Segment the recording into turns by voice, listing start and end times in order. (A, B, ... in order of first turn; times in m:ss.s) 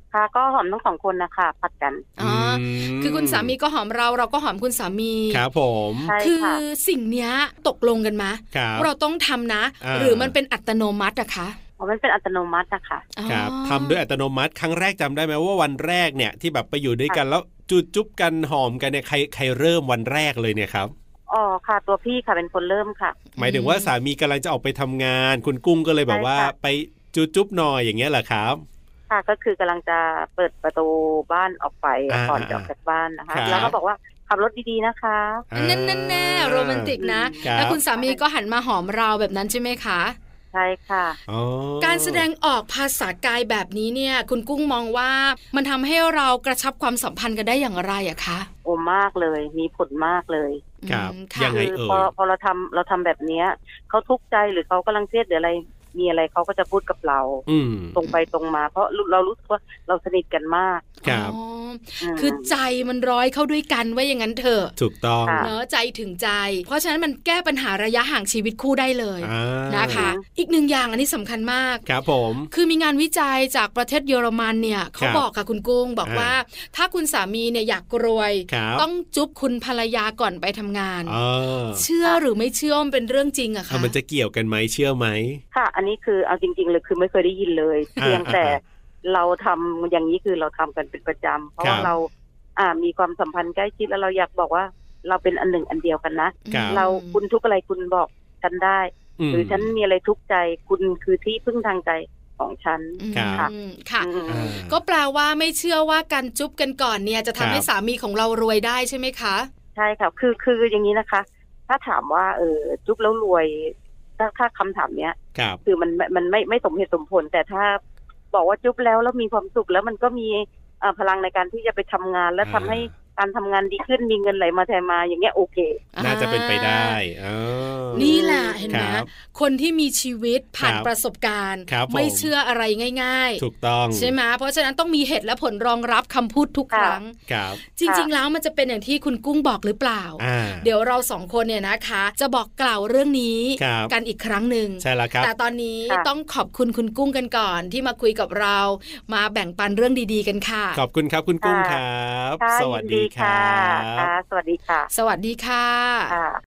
0:00.1-0:02.1 A
0:02.2-0:05.4 B
0:02.2-0:03.5 C
0:05.3-0:06.1 C
0:06.1-0:06.6 A
0:06.2-0:11.6 B
0:08.5-0:08.9 C
0:09.8-0:10.3 C
0:11.8-0:13.1 A
0:13.2-0:14.0 B
0:13.3-0:20.9 C
0:21.3-0:23.2 A
0:23.4-0:23.9 B
0:23.4-0:28.6 C
0:26.1-0:26.5 A
0:29.1-0:35.4 A
0:32.1-0:32.7 C
0:33.3-0:33.8 C
0:33.4-0:33.8 B
0:35.5-0:37.8 C
0:35.6-0:40.2 B
0:37.0-0:38.2 A
0:40.5-0:41.2 A
0:41.3-0:42.3 C
0:41.8-0:48.5 B
0:48.6-0:50.7 A
0:50.8-0:51.6 B
0:50.9-0:52.1 C
0:51.5-0:57.4 A
0:57.5-0:58.0 C
0:58.0-1:01.0 A
1:01.0-1:04.8 B
1:01.0-1:01.4 C
1:02.0-1:02.5 A
1:04.8-1:05.5 C
1:05.2-1:05.5 A
1:05.4-1:11.8 B
1:09.2-1:10.1 C
1:09.9-1:10.2 A
1:11.9-1:12.5 C
1:12.5-1:21.2 B
1:15.0-1:15.2 C
1:16.0-1:16.3 C
1:18.5-1:18.9 C
1:21.1-1:21.8 C
1:21.8-1:23.9 B
1:23.7-1:25.4 C
1:25.5-1:44.6 A
1:28.0-1:28.6 C
1:31.6-1:31.9 C
1:36.5-1:37.2 B
1:36.5-1:36.8 C
1:39.2-1:39.7 C
1:43.0-1:44.1 B
1:43.2-1:43.5 C
1:44.3-1:44.8 C
1:44.6-1:49.5 B
1:47.4-1:47.7 C
1:49.8-1:57.8 A
1:58.3-2:05.8 A
2:02.4-2:02.9 C
2:05.9-2:07.0 B
2:06.0-2:08.2 C
2:07.9-2:08.9 A
2:08.0-2:30.8 B
2:08.7-2:09.1 C
2:10.6-2:10.9 C
2:11.7-2:12.3 C
2:13.4-2:14.1 C
2:16.7-2:17.0 A
2:17.3-2:17.6 C
2:20.2-2:20.7 C
2:23.6-2:23.9 C
2:24.8-2:25.3 C
2:30.8-2:34.1 C
2:31.4-2:31.8 A
2:32.4-2:34.9 A
2:34.9-2:36.2 B
2:36.1-2:36.4 A